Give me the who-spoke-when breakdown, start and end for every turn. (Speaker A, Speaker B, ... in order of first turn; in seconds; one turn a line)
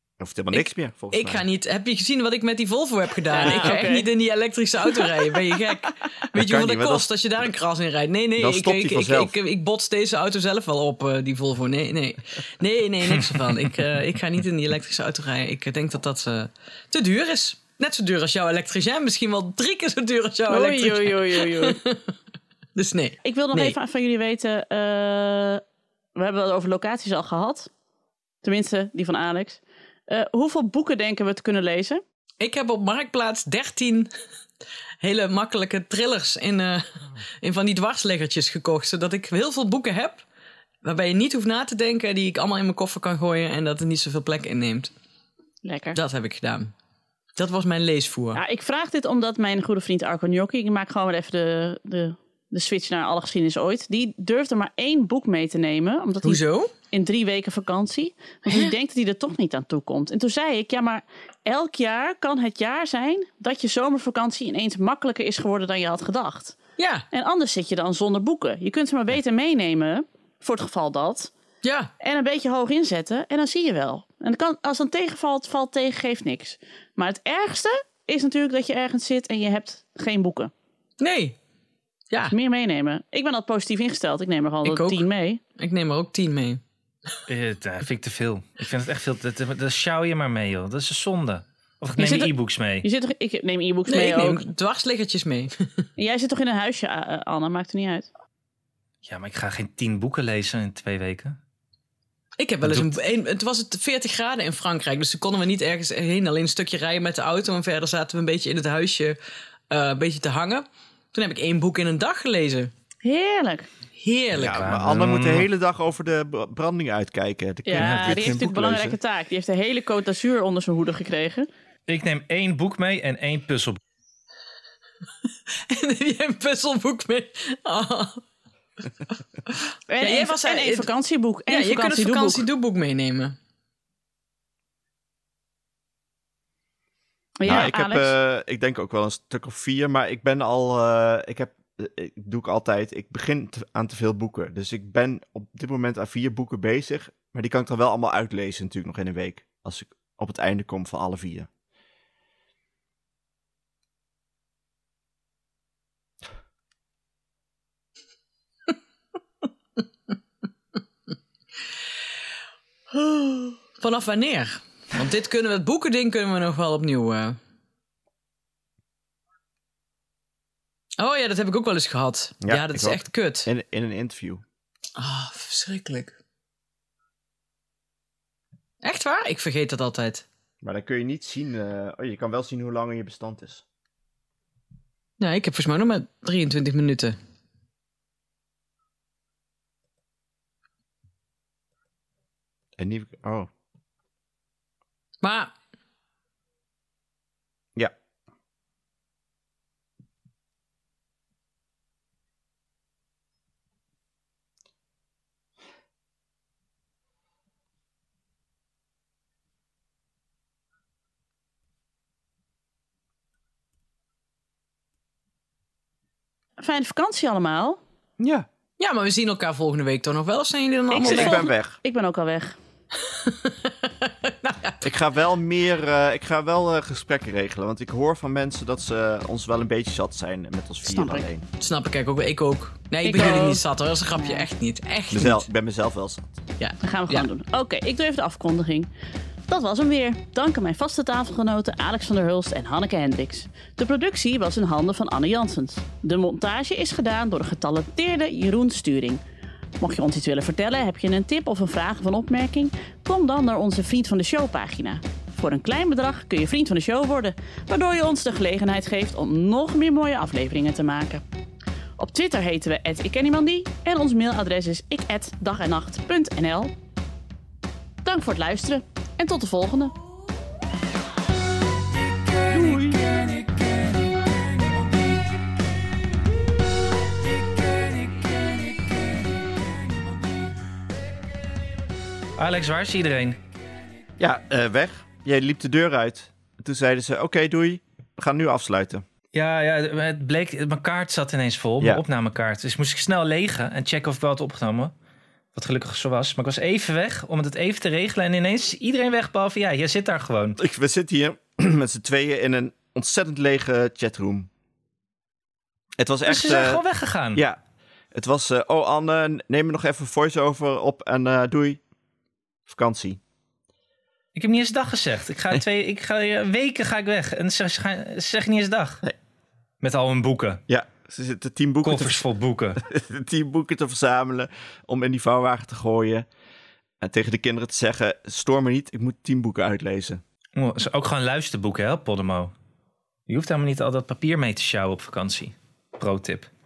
Speaker A: 0.2-1.4
Speaker B: 0.5-22.1
Speaker C: 3.3-4.1
Speaker A: 6.3-7.1
Speaker A: 8.4-9.3
Speaker C: 20.5-21.8
Speaker B: 22.8-23.8
Speaker C: 23.2-25.6
Speaker C: 26.2-27.7
Speaker C: 28.4-32.0
Speaker B: 32.4-34.1
Speaker B: 35.0-36.9
Speaker B: 37.4-40.2
Speaker B: 40.8-44.9
Speaker C: 45.6-46.0
Speaker B: 46.0-46.7
Speaker B: 47.4-48.4
Speaker C: 48.3-66.6
Speaker B: 56.2-56.7
Speaker B: 58.5-58.7
Speaker B: 66.8-67.1
Speaker C: 67.1-71.3
Speaker B: 71.6-71.9
Speaker C: 72.0-80.5
Speaker B: 81.0-81.4
Speaker C: 82.3-85.4
Speaker B: 84.6-85.1
Speaker B: 85.6-86.6
Speaker D: 87.3-92.9
Speaker C: 92.0-94.4
Speaker B: 93.9-95.8
Speaker C: 96.0-98.1
Speaker D: 99.0-101.4
Speaker B: 102.4-109.2
Speaker D: 102.6-103.0
Speaker B: 109.7-112.7
Speaker C: 113.0-113.7
Speaker B: 114.0-114.6
Speaker A: 114.3-119.0
Speaker D: 114.4-115.5
Speaker C: 117.7-121.5
Speaker D: 117.7-118.4
Speaker D: 121.9-123.8
Speaker B: 125.7-128.2
Speaker B: 129.5-130.9
Speaker C: 129.9-132.4
Speaker B: 131.5-133.4
Speaker C: 137.4-138.1
Speaker A: 137.4-151.5
Speaker B: 162.9-167.4
Speaker B: 171.0-173.5
Speaker A: 172.4-174.4
Speaker B: 175.0-176.1
Speaker B: 178.8-180.3
Speaker A: 180.6-183.6
Speaker B: 185.2-187.2
Speaker A: 192.8-193.5
Speaker B: 195.2-195.5
Speaker C: 216.6-217.8
Speaker A: 218.2-218.5
Speaker B: 218.8-221.4
Speaker C: 220.9-222.6
Speaker A: 221.0-221.8
Speaker B: 223.0-224.9
Speaker A: 224.8-231.5
Speaker C: 230.9-231.2
Speaker B: 231.6-235.5
Speaker C: 233.0-234.5
Speaker A: 235.1-236.3
Speaker B: 236.6-237.3
Speaker C: 236.8-238.9
Speaker C: 239.5-249.2
Speaker C: 249.8-261.2
Speaker C: 262.0-266.7
Speaker C: 268.1-269.9
Speaker E: 271.9-275.3
Speaker A: 272.5-273.0
Speaker E: 277.2-280.2
Speaker D: 282.4-283.4
Speaker A: 284.2-289.0
Speaker D: 289.3-294.9
Speaker D: 295.6-300.6
Speaker A: 300.6-304.5
Speaker A: 306.0-306.8
Speaker D: 306.3-307.4
Speaker A: 307.3-307.6
Speaker A: 308.1-311.8
Speaker A: 312.7-313.2
Speaker D: 314.4-319.0
Speaker D: 319.8-320.6
Speaker A: 320.7-322.2
Speaker D: 321.8-322.8
Speaker A: 322.8-326.3
Speaker A: 327.0-330.2
Speaker D: 330.6-332.5
Speaker D: 333.3-336.5